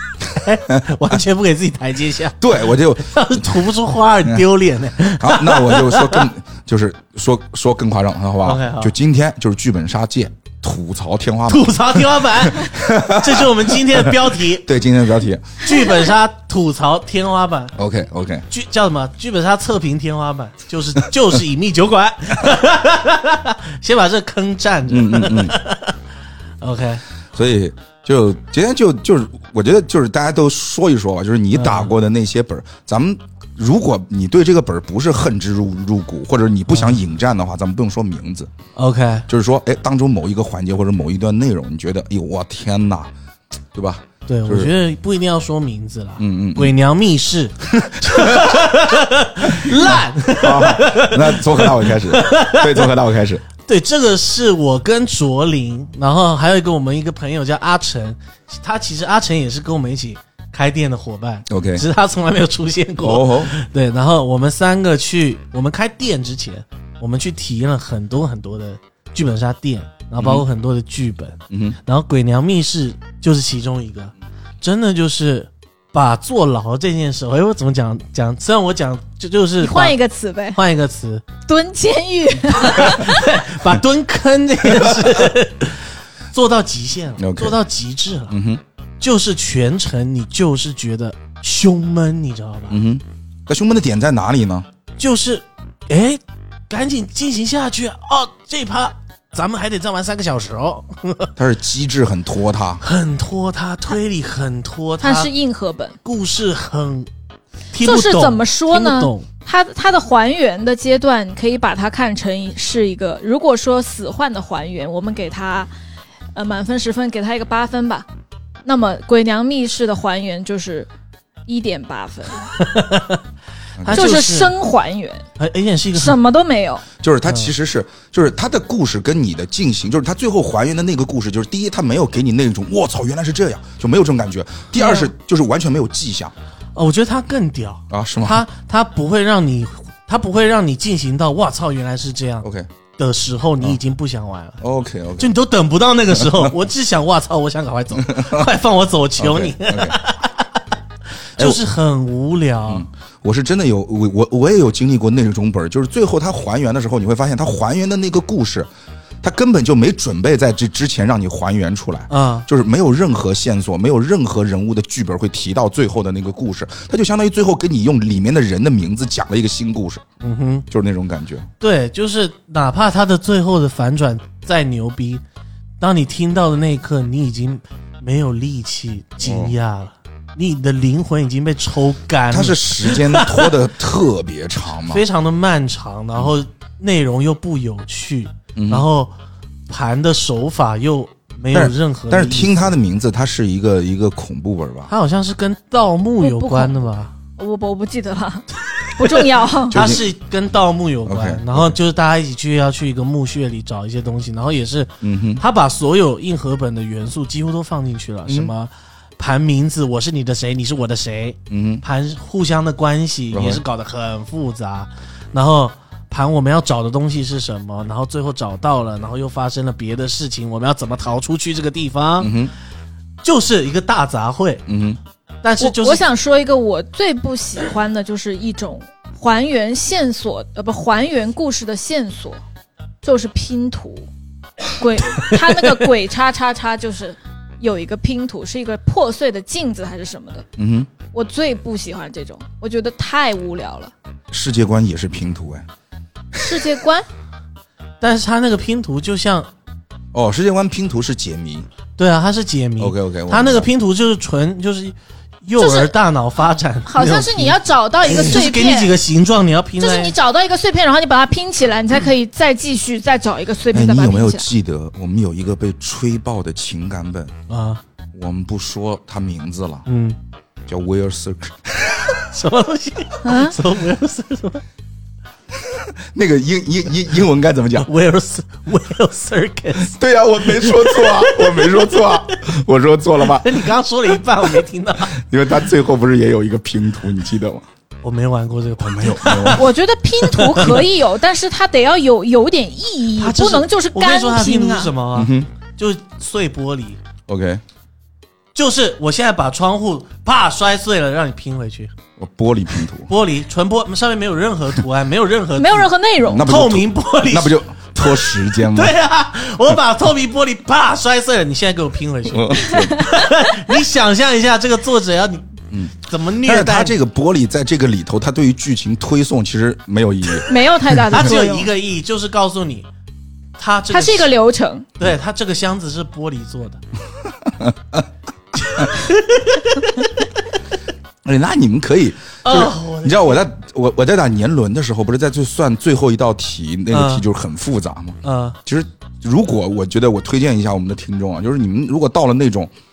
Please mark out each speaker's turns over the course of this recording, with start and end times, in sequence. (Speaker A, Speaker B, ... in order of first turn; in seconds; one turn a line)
Speaker A: 0.3-6.3
Speaker B: 2.4-3.7
Speaker B: 5.2-15.8
Speaker A: 8.4-8.9
Speaker A: 11.5-14.7
Speaker A: 15.6-17.8
Speaker B: 17.8-18.5
Speaker A: 18.5-26.0
Speaker B: 24.9-25.6
Speaker A: 26.6-27.0
Speaker B: 27.3-38.5
Speaker A: 31.5-31.9
Speaker A: 36.7-37.0
Speaker A: 38.8-39.3
Speaker B: 39.3-43.1
Speaker B: 43.7-44.7
Speaker A: 44.3-52.9
Speaker B: 46.2-46.8
Speaker B: 47.8-48.8
Speaker B: 49.4-53.5
Speaker A: 53.6-80.0
Speaker B: 61.5-61.9
Speaker B: 63.0-63.5
Speaker B: 70.2-70.5
Speaker B: 71.5-71.8
Speaker C: 79.6-80.6
Speaker A: 80.5-81.3
Speaker C: 81.5-83.4
Speaker A: 82.5-88.4
Speaker B: 84.7-85.2
Speaker B: 87.2-87.6
Speaker B: 88.3-88.6
Speaker A: 89.0-92.8
Speaker B: 92.7-94.7
Speaker A: 95.0-101.3
Speaker B: 101.4-102.8
Speaker A: 102.8-105.3
Speaker C: 105.0-106.0
Speaker A: 106.0-107.1
Speaker A: 107.7-109.3
Speaker C: 107.8-115.7
Speaker C: 116.3-118.1
Speaker C: 118.7-120.9
Speaker C: 121.5-122.5
Speaker A: 122.6-123.2
Speaker B: 123.8-124.2
Speaker A: 123.8-124.5
Speaker C: 123.9-125.2
Speaker A: 125.4-126.2
Speaker C: 125.9-126.8
Speaker B: 127.0-136.3
Speaker A: 127.3-127.5
Speaker A: 134.8-135.1
Speaker A: 136.8-142.5
Speaker B: 137.9-138.4
Speaker B: 142.4-142.7
Speaker A: 143.0-144.6
Speaker B: 144.6-145.3
Speaker A: 145.2-150.6
Speaker B: 146.1-146.5
Speaker B: 148.0-148.5
Speaker B: 149.2-150.0
Speaker B: 151.4-151.6
Speaker A: 151.4-152.8
Speaker B: 152.7-158.7
Speaker B: 159.2-170.0
Speaker A: 162.1-162.5
Speaker A: 170.2-170.7
Speaker B: 170.7-171.5
Speaker A: 171.6-175.2
Speaker A: 175.8-183.5
Speaker B: 179.2-179.5
Speaker B: 182.3-185.0
Speaker A: 184.9-189.1
Speaker B: 188.6-188.9
Speaker A: 189.7-192.7
Speaker B: 191.5-194.9
Speaker A: 194.9-197.1
Speaker C: 196.2-196.8
Speaker C: 197.4-200.0
Speaker A: 198.7-222.3
Speaker B: 199.7-200.1
Speaker B: 201.1-201.8
Speaker B: 205.0-205.4
Speaker B: 208.3-208.5
Speaker B: 211.5-211.8
Speaker B: 213.3-213.6
Speaker B: 222.2-222.5
Speaker A: 223.2-224.6
Speaker B: 224.7-225.0
Speaker A: 225.4-226.1
Speaker C: 225.6-232.4
Speaker C: 233.0-234.1
Speaker C: 234.7-240.5
Speaker B: 240.6-240.9
Speaker C: 241.1-243.9
Speaker B: 244.3-245.7
Speaker C: 246.3-247.1
Speaker B: 246.4-246.7
Speaker A: 248.0-249.5
Speaker B: 250.1-251.7
Speaker A: 252.0-260.1
Speaker B: 252.8-253.7
Speaker C: 255.6-255.9
Speaker C: 256.9-259.0
Speaker C: 259.8-264.5
Speaker B: 263.7-267.3
Speaker A: 267.5-267.8
Speaker B: 268.1-269.9
Speaker A: 269.9-270.2
Speaker B: 270.7-272.2
Speaker A: 272.3-274.6
Speaker C: 273.2-273.6
Speaker B: 275.6-277.9
Speaker A: 277.8-282.4
Speaker B: 279.8-283.6
Speaker A: 283.2-285.2
Speaker B: 285.1-287.6
Speaker A: 288.0-289.7
Speaker B: 288.8-289.7
Speaker C: 289.5-294.9
Speaker A: 290.2-290.9
Speaker A: 293.2-297.0
Speaker B: 295.1-295.5
Speaker B: 297.3-297.6
Speaker A: 298.6-301.9
Speaker B: 302.2-303.1
Speaker A: 303.1-317.0
Speaker C: 305.6-306.5
Speaker B: 306.2-308.9
Speaker B: 312.3-313.1
Speaker C: 312.7-313.1
Speaker B: 315.7-320.5
Speaker C: 320.4-321.7
Speaker A: 321.1-322.9
Speaker A: 323.6-324.3
Speaker C: 323.9-324.9
Speaker A: 325.0-326.8
Speaker B: 327.5-328.1
Speaker A: 328.6-330.2
Speaker B: 331.2-342.7
Speaker A: 332.4-333.4
Speaker A: 336.9-337.3
Speaker A: 338.2-338.6